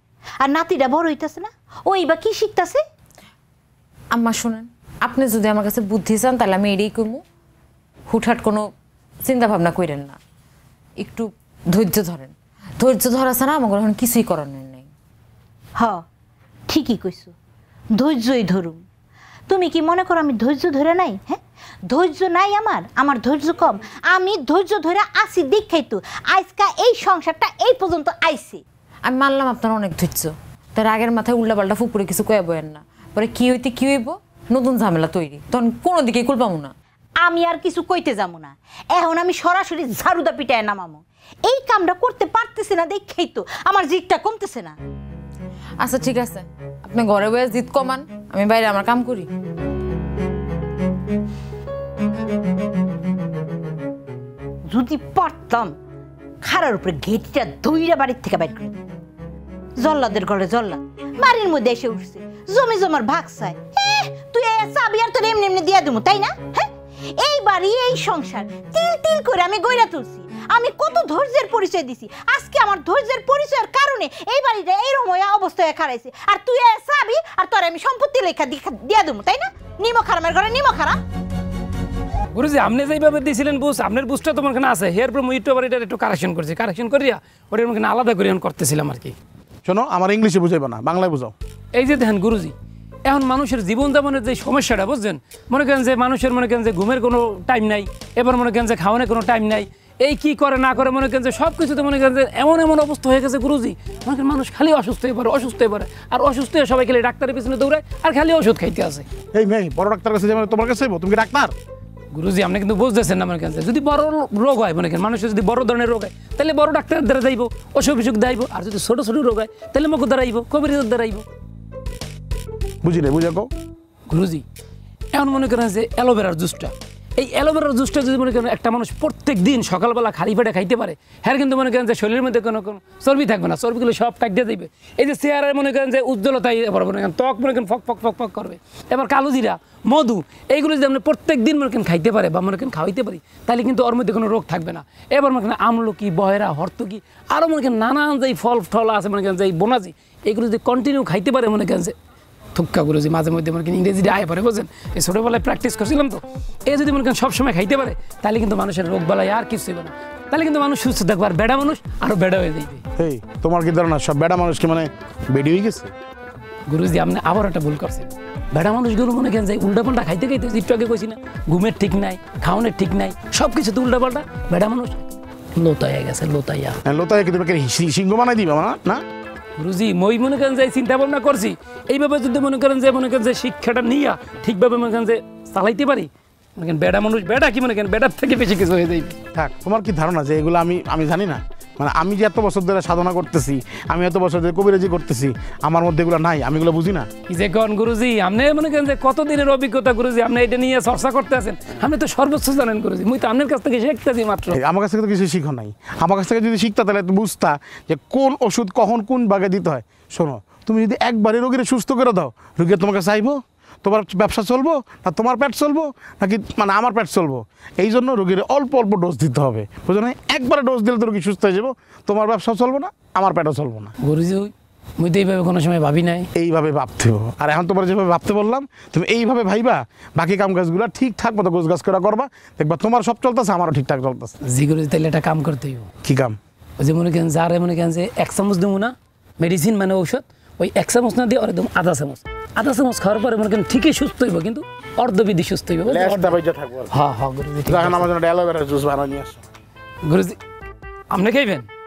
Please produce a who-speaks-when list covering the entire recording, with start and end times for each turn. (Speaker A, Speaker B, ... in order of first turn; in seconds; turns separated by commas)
Speaker A: 0.4-2.8, Speaker B: 4.1-7.2, Speaker B: 8.1-8.7, Speaker B: 9.2-10.2, Speaker B: 11.0-14.9, Speaker A: 16.7-17.3, Speaker A: 18.0-18.8, Speaker A: 19.5-21.4, Speaker A: 21.9-28.6, Speaker B: 29.1-36.7, Speaker A: 37.2-44.8, Speaker B: 45.8-49.3, Speaker A: 54.7-55.7, Speaker A: 56.4-58.7, Speaker A: 59.8-81.0, Speaker C: 82.3-89.2, Speaker D: 89.7-91.3, Speaker C: 91.7-92.5, Speaker C: 93.0-109.1, Speaker D: 109.3-111.5, Speaker C: 112.1-121.2, Speaker D: 122.8-123.5, Speaker C: 124.1-124.4, Speaker C: 125.1-151.9, Speaker C: 152.5-162.8, Speaker D: 163.0-165.9, Speaker C: 166.7-176.8, Speaker D: 176.8-179.0, Speaker C: 179.6-189.2, Speaker D: 189.3-197.1, Speaker C: 197.3-204.6, Speaker D: 204.5-223.9, Speaker C: 224.0-226.3, Speaker D: 226.3-234.4, Speaker C: 234.4-235.9, Speaker D: 236.0-236.4, Speaker C: 236.8-248.1, Speaker D: 245.9-246.9, Speaker D: 247.7-249.4, Speaker C: 250.0-250.4, Speaker C: 251.1-251.7